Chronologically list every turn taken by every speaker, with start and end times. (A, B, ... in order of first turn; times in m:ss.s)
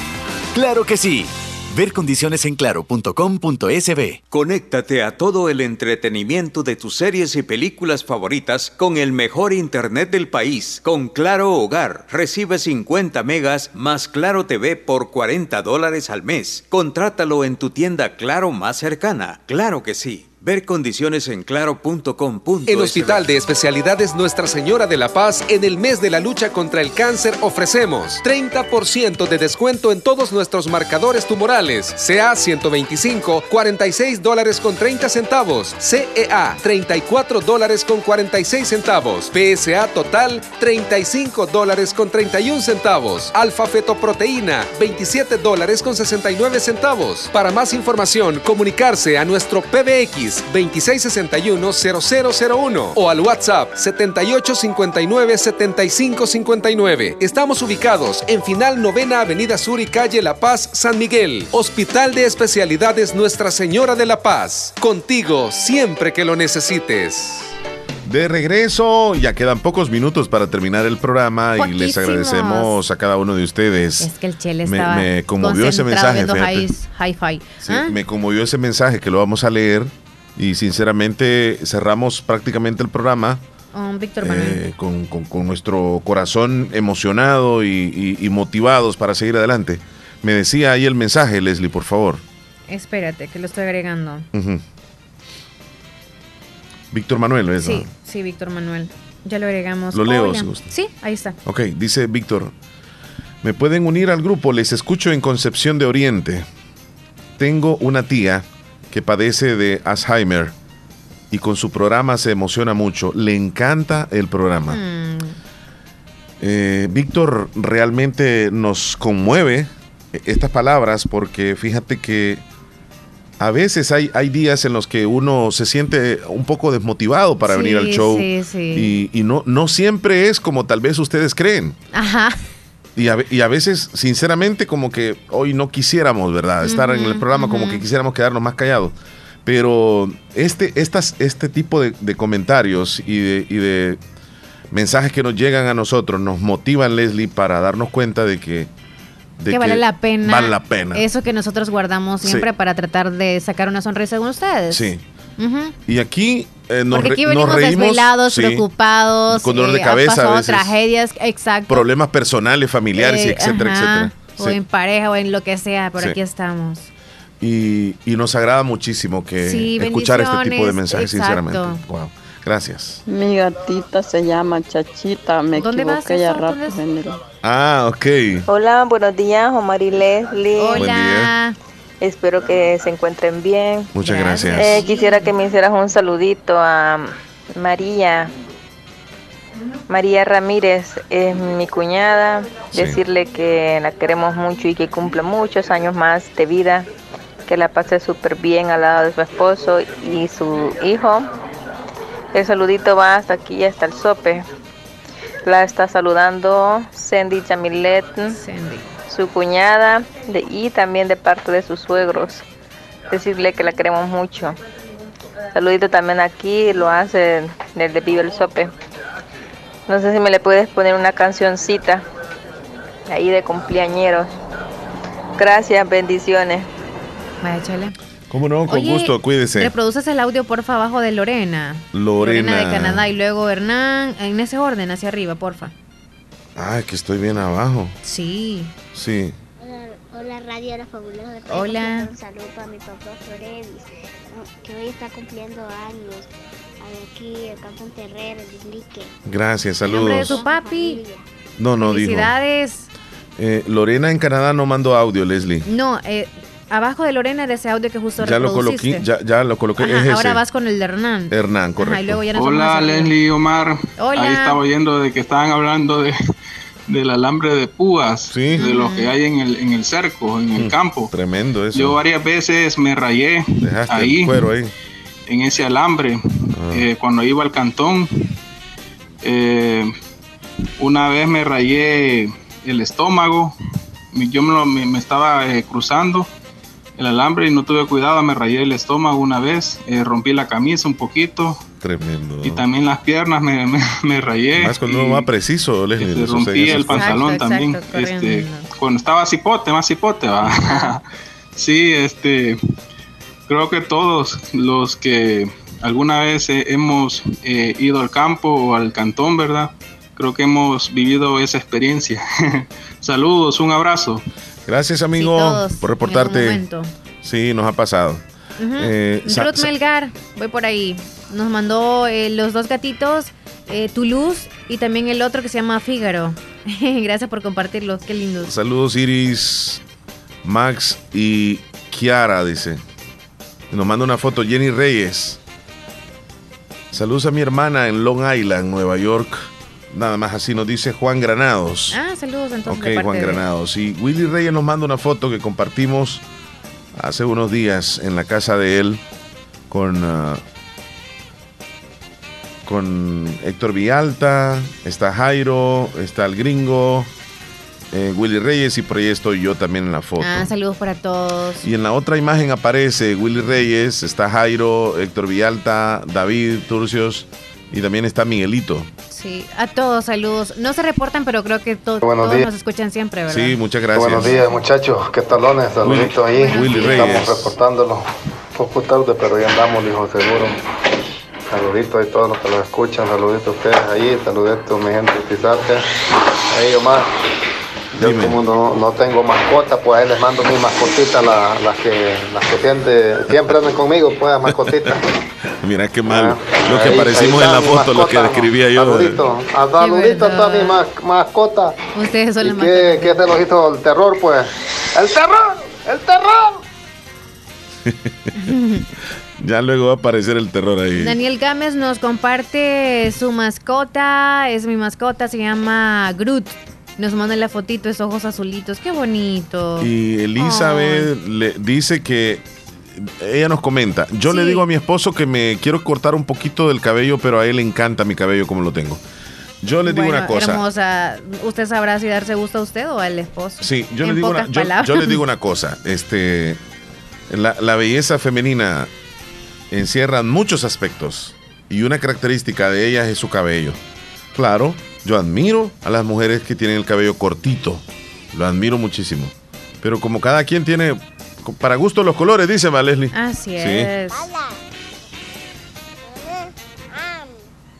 0:00.5-0:04.3 A
0:04.3-0:23.3 B
0:22.7-1:07.5 C
1:08.0-1:14.1 D
1:11.6-1:12.8 E
1:14.0-1:18.0 E
1:14.6-1:16.7 D
1:17.6-1:23.4 D
1:23.7-1:24.6 E
1:24.2-1:32.2 D
1:32.7-1:34.3 E
1:34.3-1:34.6 D
1:36.9-1:37.9 D
1:37.6-1:41.4 E
1:39.9-1:40.6 D
1:41.4-1:42.5 D
1:43.4-1:46.5 D
1:47.4-1:50.5 D
1:51.3-1:54.8 D
1:54.7-1:55.4 E
1:56.4-2:02.4 D
2:03.4-2:11.8 D
2:07.4-2:09.0 E
2:11.9-2:12.4 E
2:13.0-2:18.9 D
2:16.6-2:17.8 E
2:19.4-2:24.0 D
2:24.7-2:28.7 D
2:29.4-2:31.0 D
2:29.5-2:35.8 E
2:32.2-2:32.5 D
2:34.7-2:35.0 D
2:35.9-2:38.6 D
2:36.9-2:41.9 E
2:39.3-2:40.7 D
2:41.7-2:44.6 D
2:42.9-2:46.9 E
2:47.4-2:53.0 D
2:49.4-2:51.8 E
2:53.1-2:57.2 F
2:55.6-2:56.8 E
2:57.4-2:58.4 D
2:58.5-3:00.9 G
3:00.6-3:01.6 E
3:00.8-3:01.3 D
3:02.0-3:03.9 G
3:03.9-3:04.8 D
3:04.0-3:05.3 E
3:04.6-3:08.3 G
3:09.9-3:16.9 G
3:12.7-3:13.0 D
3:17.5-3:21.3 G
3:22.3-3:24.5 G
3:25.4-3:28.4 G
3:28.3-3:28.9 E
3:29.1-3:32.4 G
3:33.1-3:34.6 G
3:35.5-3:38.7 G
3:39.9-3:42.0 G
3:43.1-3:44.3 G
3:45.4-3:46.7 G
3:47.4-3:48.0 E
3:48.3-3:49.7 D
3:48.7-3:55.7 E
3:51.9-3:53.1 D
3:56.6-3:57.9 D
3:58.0-3:58.7 E
3:58.9-3:59.3 D
3:59.6-4:06.3 H
4:01.5-4:02.1 E
4:06.8-4:09.1 H
4:09.3-4:10.4 D
4:09.9-4:11.0 E
4:10.0-4:11.2 H
4:11.6-4:12.3 D
4:11.8-4:12.9 E
4:13.4-4:15.6 D
4:15.7-4:19.0 E
4:18.2-4:20.4 D
4:19.8-4:23.2 E
4:21.3-4:22.2 D
4:22.4-4:26.1 I
4:24.0-4:24.6 E
4:26.9-4:31.0 I
4:28.3-4:28.7 D
4:28.5-4:29.2 E
4:30.5-4:32.0 D
4:31.8-4:34.3 I
4:33.6-4:34.7 D
4:35.3-4:36.1 I
4:36.5-4:36.9 D
4:36.8-4:38.1 I
4:39.2-4:39.8 I
4:40.8-4:43.5 I
4:44.2-4:46.3 I
4:47.0-4:51.6 I
4:51.8-4:52.6 D
4:52.5-4:55.1 I
4:54.6-4:57.3 D
4:56.1-5:01.0 I
4:56.8-4:58.7 E
5:00.5-5:01.0 E
5:01.6-5:02.6 I
5:03.5-5:12.2 I
5:13.0-5:14.2 I
5:14.7-5:16.6 D
5:15.2-5:16.9 E
5:17.2-5:18.2 D
5:18.6-5:28.5 E
5:18.8-5:19.7 D
5:28.4-5:29.8 D
5:30.4-5:32.8 D
5:33.7-5:35.4 D
5:36.9-5:42.0 D
5:41.9-5:43.5 E
5:42.7-5:46.2 D
5:47.0-5:49.0 D
5:49.7-5:50.4 D
5:52.7-5:57.1 D
5:57.9-6:00.5 D
6:00.2-6:01.7 E
6:01.6-6:08.9 D
6:09.1-6:13.6 E
6:12.0-6:12.5 J
6:13.3-6:14.4 D
6:13.9-6:20.6 J
6:15.9-6:17.5 D
6:16.4-6:17.3 E
6:21.5-6:25.8 J
6:26.5-6:27.1 J
6:28.0-6:35.0 J
6:28.0-6:28.4 D
6:35.6-6:39.2 D
6:36.1-6:41.8 J
6:39.8-6:40.8 E
6:42.0-6:43.2 E
6:42.4-6:46.6 J
6:48.4-6:48.9 E
6:49.4-6:51.2 D
6:51.0-7:01.1 E
6:59.8-7:02.4 D
7:03.0-7:09.0 D
7:04.2-7:04.7 E
7:09.6-7:10.6 D
7:09.8-7:15.2 E
7:13.6-7:16.6 D
7:17.3-7:18.9 D
7:19.7-7:23.8 D
7:24.4-7:33.9 D
7:33.1-7:34.3 E
7:37.0-7:37.3 H